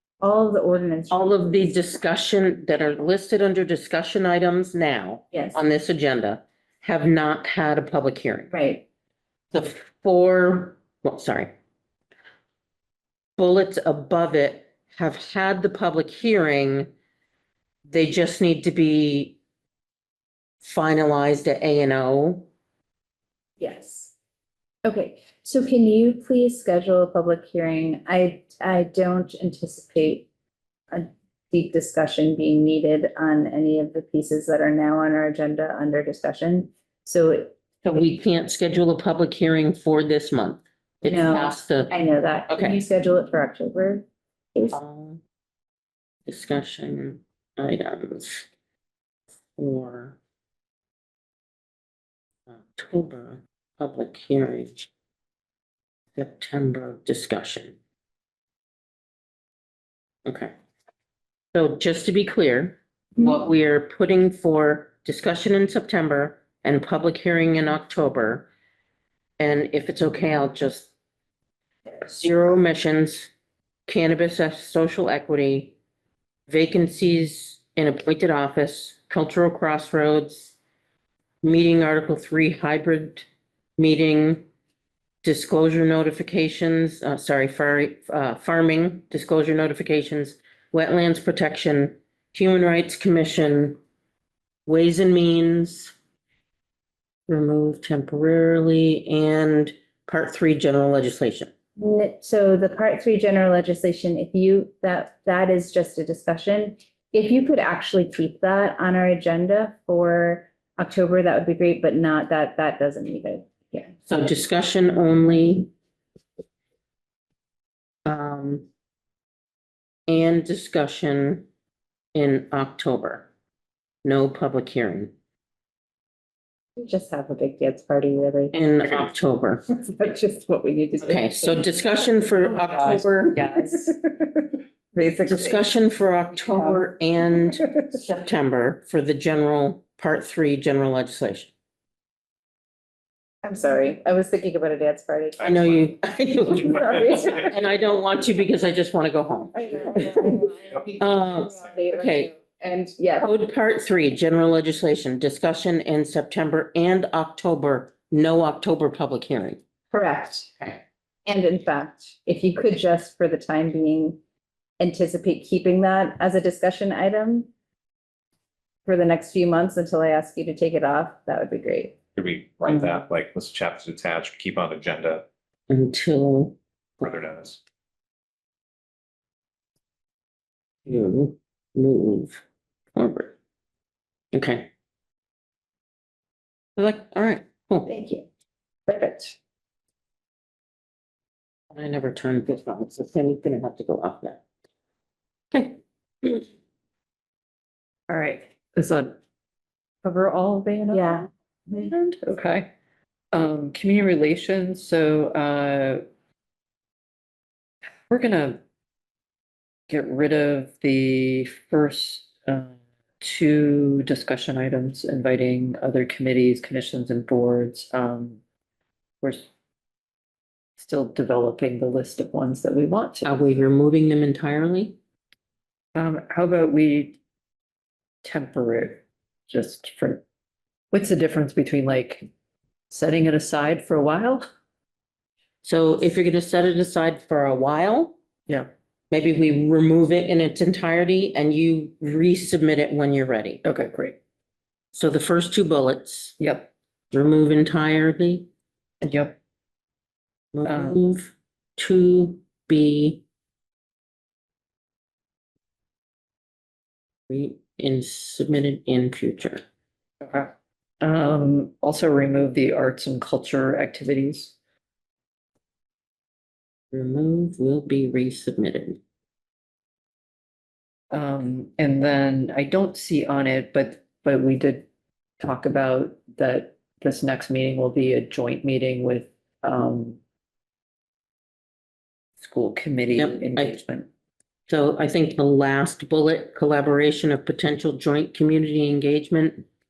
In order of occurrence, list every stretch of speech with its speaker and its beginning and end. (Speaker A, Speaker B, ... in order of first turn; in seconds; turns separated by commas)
Speaker A: 0.2-1.7, Speaker B: 1.1-8.5, Speaker A: 5.3-5.6, Speaker A: 8.5-8.8, Speaker B: 9.5-11.5, Speaker B: 13.4-16.9, Speaker B: 17.9-19.4, Speaker B: 20.6-22.5, Speaker A: 23.6-24.1, Speaker A: 24.8-30.3, Speaker A: 30.9-37.5, Speaker B: 37.8-41.9, Speaker A: 41.0-44.8, Speaker B: 42.5-42.8, Speaker B: 44.7-45.2, Speaker B: 46.3-48.5, Speaker B: 49.5-50.2, Speaker B: 52.5-54.9, Speaker B: 56.1-57.8, Speaker B: 60.2-60.5, Speaker B: 61.5-68.5, Speaker B: 69.4-70.9, Speaker B: 72.0-73.3, Speaker B: 73.9-75.7, Speaker B: 76.5-80.5, Speaker B: 81.4-83.2, Speaker B: 83.8-84.5, Speaker B: 85.2-93.8, Speaker B: 94.7-95.9, Speaker B: 97.3-101.5, Speaker A: 101.8-113.9, Speaker B: 114.1-115.7, Speaker B: 118.0-118.7, Speaker B: 120.1-121.5, Speaker B: 122.1-123.3, Speaker B: 124.0-125.1, Speaker A: 126.8-128.5, Speaker B: 128.5-129.7, Speaker A: 129.7-131.7, Speaker B: 131.0-133.4, Speaker A: 133.3-135.6, Speaker C: 133.4-133.6, Speaker B: 135.3-141.5, Speaker A: 143.4-145.5, Speaker B: 145.4-152.3, Speaker A: 146.4-147.5, Speaker A: 149.5-153.3, Speaker B: 153.2-159.6, Speaker A: 159.9-160.7, Speaker A: 161.2-164.2, Speaker A: 164.8-167.5, Speaker A: 168.8-171.9, Speaker D: 172.2-175.2, Speaker B: 175.7-176.6, Speaker D: 177.0-177.6, Speaker B: 180.9-182.4, Speaker B: 182.9-183.3, Speaker B: 184.3-184.7, Speaker B: 186.8-187.9, Speaker A: 187.8-188.3, Speaker A: 188.9-189.4, Speaker B: 191.7-194.4, Speaker B: 195.5-196.4, Speaker C: 198.1-199.1, Speaker C: 200.0-202.7, Speaker A: 200.9-201.9, Speaker C: 203.3-206.0, Speaker C: 208.1-208.6, Speaker C: 209.9-218.4, Speaker C: 219.2-219.4, Speaker C: 220.8-223.3, Speaker B: 223.2-225.0, Speaker C: 225.9-227.2, Speaker C: 228.2-230.2, Speaker C: 230.9-232.2, Speaker C: 232.9-234.4, Speaker B: 235.6-238.2, Speaker B: 239.1-243.6, Speaker C: 243.6-244.2, Speaker B: 244.9-246.3, Speaker C: 246.4-246.7, Speaker B: 247.1-248.5, Speaker C: 249.0-249.3, Speaker B: 250.5-253.2, Speaker C: 250.7-251.0, Speaker B: 257.3-259.6, Speaker C: 260.2-260.5, Speaker C: 261.0-264.5, Speaker B: 266.9-269.0, Speaker C: 271.1-274.8, Speaker C: 275.4-280.2, Speaker C: 282.4-284.1, Speaker B: 283.2-283.8, Speaker B: 284.7-289.6